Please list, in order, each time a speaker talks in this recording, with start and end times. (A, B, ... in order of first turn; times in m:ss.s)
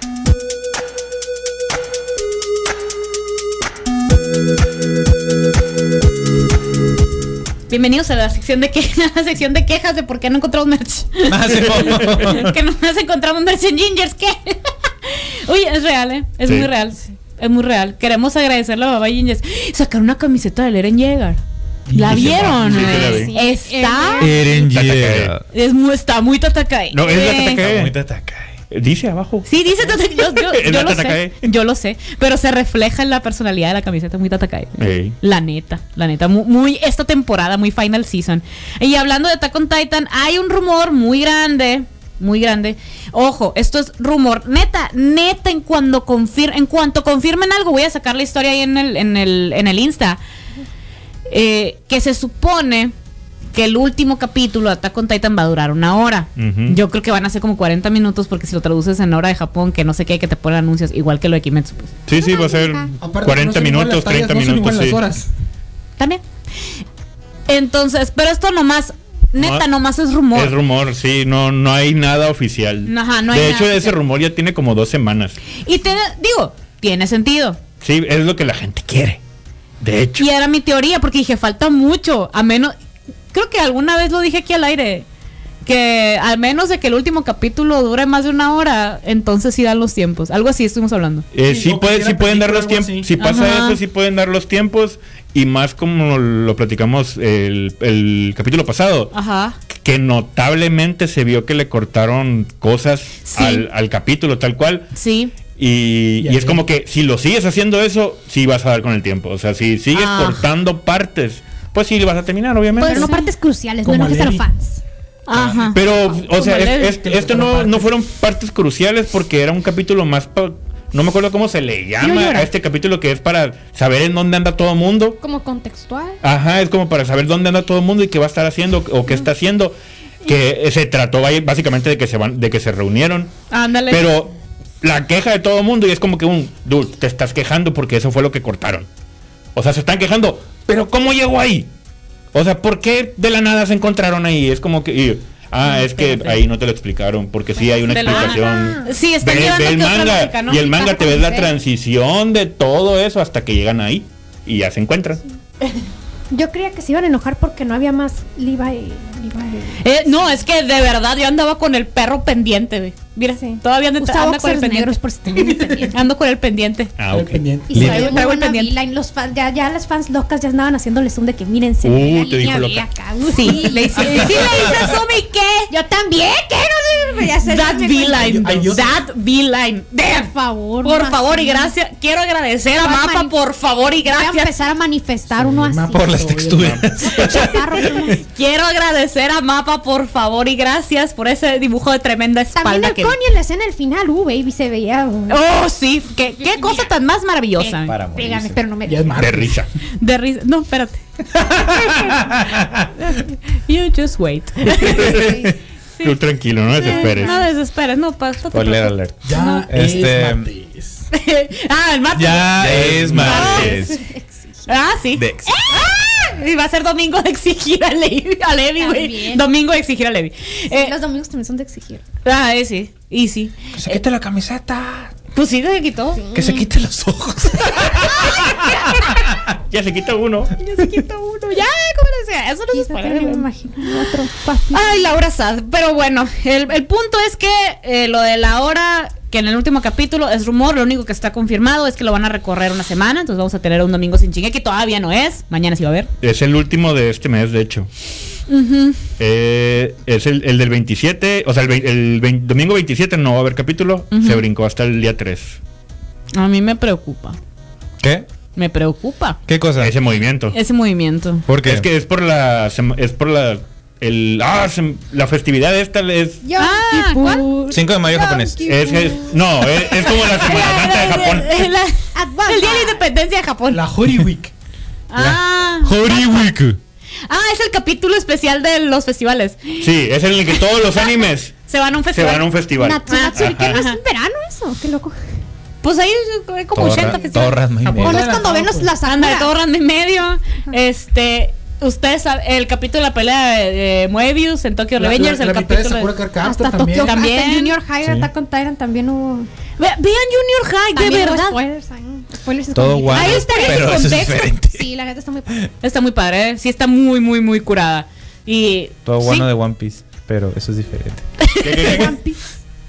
0:07.7-0:24.4 A
0:11.3-0:12.6 B
0:21.9-0:22.8 C
0:22.0-0:22.5 B
0:22.0-0:23.3 D
0:22.6-0:24.6 E
0:24.2-0:25.4 B
0:24.5-0:25.3 D
0:25.5-0:27.6 A
0:26.9-0:27.9 D
0:27.6-0:28.5 B
0:28.7-0:31.3 D
0:29.4-0:50.2 A
0:34.8-0:35.2 D
0:51.3-0:52.9 A
0:53.5-1:01.9 A
0:56.4-0:56.8 D
1:02.1-1:05.0 D
1:02.1-1:02.9 E
1:03.0-1:05.3 C
1:07.5-1:10.5 A
1:09.4-1:09.6 D
1:10.3-1:15.4 D
1:12.9-1:14.0 A
1:15.6-1:17.6 A
1:17.8-1:19.2 D
1:19.8-1:20.3 D
1:20.2-1:22.7 A
1:23.3-1:25.0 A
1:25.6-1:31.2 A
1:31.3-1:39.1 D
1:31.4-1:33.1 C
1:33.2-1:33.8 A
1:39.1-1:39.6 A
1:39.8-1:44.9 D
1:43.2-1:43.6 A
1:44.9-1:45.3 A
1:45.5-1:53.1 D
1:46.2-1:46.6 C
1:49.9-1:50.4 A
1:52.8-1:54.8 E
1:52.8-1:53.2 A
1:53.8-1:54.4 C
1:55.3-1:57.0 A
1:55.3-2:05.2 D
1:56.8-1:57.9 C
2:02.0-2:02.5 A
2:05.2-2:06.2 E
2:06.2-2:13.3 D
2:13.5-2:14.0 A
2:13.9-2:18.9 D
2:19.5-2:21.7 D
2:22.3-2:35.2 D
2:25.6-2:26.4 A
2:27.6-2:28.9 E
2:27.9-2:31.0 A
2:30.6-2:31.5 E
2:36.3-2:40.4 E
2:39.8-2:45.0 A
2:43.4-2:45.9 E
2:45.8-2:46.9 A
2:47.0-2:47.4 D
2:47.1-2:47.9 C
2:47.7-2:48.2 B
2:47.7-2:55.0 E
2:47.7-2:48.7 A
2:51.8-2:52.8 D
2:53.3-2:55.7 A
2:55.7-2:58.3 E
2:57.4-3:00.3 A
2:58.1-2:59.0 C
3:00.1-3:01.7 E
3:00.8-3:04.5 A
3:02.8-3:03.4 E
3:04.0-3:06.2 E
3:05.3-3:07.2 C
3:05.9-3:07.8 B
3:06.5-3:07.1 D
3:07.1-3:08.2 E
3:07.3-3:13.2 A
3:12.6-3:15.4 E
3:15.3-3:17.9 A
3:16.5-3:16.8 E
3:17.6-3:19.2 E
3:17.9-3:18.6 B
3:18.8-3:19.7 C
3:19.2-3:19.7 D
3:20.0-3:22.2 A
3:21.4-3:22.8 B
3:23.0-3:25.2 A
3:24.9-3:25.5 D
3:24.9-3:25.6 E
3:26.0-3:27.4 D
3:26.7-3:29.6 A
3:26.8-3:27.4 E
3:28.5-3:30.5 B
3:29.2-3:31.1 C
3:31.1-3:34.0 A
3:32.1-3:34.0 B
3:32.5-3:33.7 D
3:32.8-3:33.1 C
3:33.2-3:34.8 E
3:34.7-3:40.9 A
3:35.1-3:35.5 B
3:35.7-3:36.0 E
3:38.8-3:39.5 E
3:40.7-3:42.0 E
3:42.2-3:44.0 A
3:43.8-3:45.1 B
3:45.3-3:46.2 A
3:46.2-3:46.7 E
3:46.3-3:49.4 B
3:48.3-3:48.6 E
3:48.4-3:48.7 A
3:49.5-3:50.5 D
3:50.6-3:51.6 E
3:51.5-3:54.1 A
3:52.7-3:55.1 E
3:54.7-4:06.1 A
4:06.2-4:07.9 D
4:08.5-4:09.0 A
4:09.2-4:15.6 D
4:14.1-4:14.4 A
4:16.3-4:17.4 A
4:18.0-4:18.2 B
4:18.6-4:19.4 A
4:19.5-4:19.9 B
4:19.8-4:20.6 D
4:20.5-4:21.4 A
4:21.5-4:21.8 B
4:21.6-4:26.4 D
4:26.4-4:30.1 E
4:26.6-4:27.5 A
4:27.7-4:28.6 B
4:28.6-4:31.6 D
4:29.9-4:33.8 A
4:32.1-4:33.0 E
4:33.7-4:34.5 C
4:35.1-4:36.4 A
4:35.2-4:36.8 B
4:37.3-4:39.9 A
4:39.8-4:43.8 D
4:40.5-4:41.1 A
4:41.7-4:42.5 A
4:42.8-4:45.2 E
4:43.1-4:44.0 A
4:45.8-4:47.6 A
4:46.7-4:48.3 B
4:46.9-4:47.2 E
4:47.8-4:48.9 C
4:48.0-4:49.5 E
4:49.0-4:56.2 A
4:55.0-4:57.1 C
4:56.4-4:59.5 E
4:56.9-4:57.7 A
4:58.0-4:58.3 B
4:59.8-5:01.6 A
5:00.9-5:05.6 E
5:02.7-5:04.9 B
5:03.1-5:04.4 A
5:05.8-5:09.5 A
5:09.0-5:11.2 B
5:11.4-5:12.1 A
5:11.6-5:12.2 D
5:11.7-5:12.4 E